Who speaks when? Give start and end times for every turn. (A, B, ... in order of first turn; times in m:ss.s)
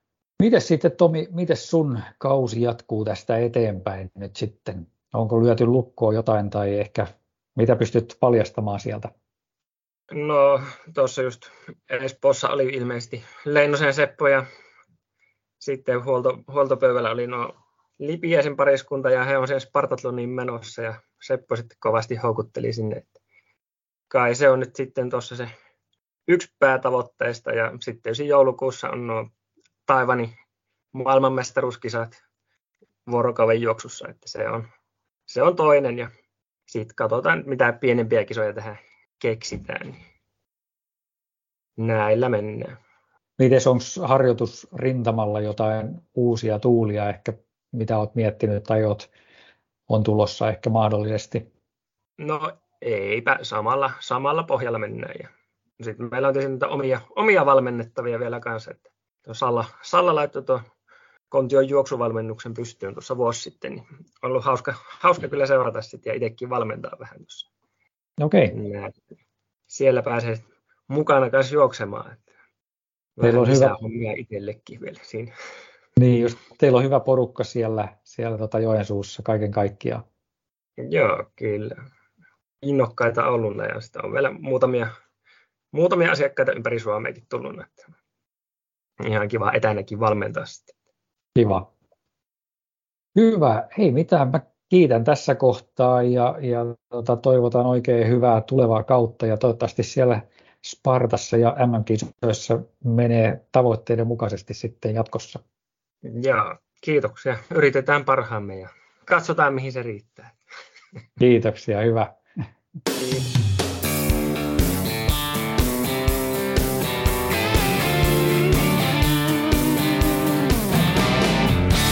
0:00.4-0:09.1 A
0:10.1-0:14.4 B
0:15.6-0:23.1 B
0:24.1-0:25.5 B
0:26.3-0:29.3 B
0:29.9-0:30.3 B
0:30.9-0:32.2 B
0:33.1-0:34.7 B
0:35.3-0:36.1 B
0:36.7-0:40.0 B
0:41.8-0:42.8 B
0:43.4-0:49.1 A
0:49.9-0:51.4 A
0:52.2-1:00.6 B
1:01.3-1:07.5 B
1:08.2-1:08.5 A
1:08.5-1:08.9 B
1:09.7-1:12.2 B
1:13.2-1:15.3 B
1:13.2-1:13.7 A
1:16.0-1:20.0 A
1:20.8-1:21.8 B
1:22.6-1:24.9 B
1:25.7-1:27.8 B
1:29.0-1:30.7 B
1:31.4-1:31.7 A
1:33.1-1:45.4 A
1:46.0-1:50.4 B
1:51.2-1:52.2 A
1:53.0-1:53.3 B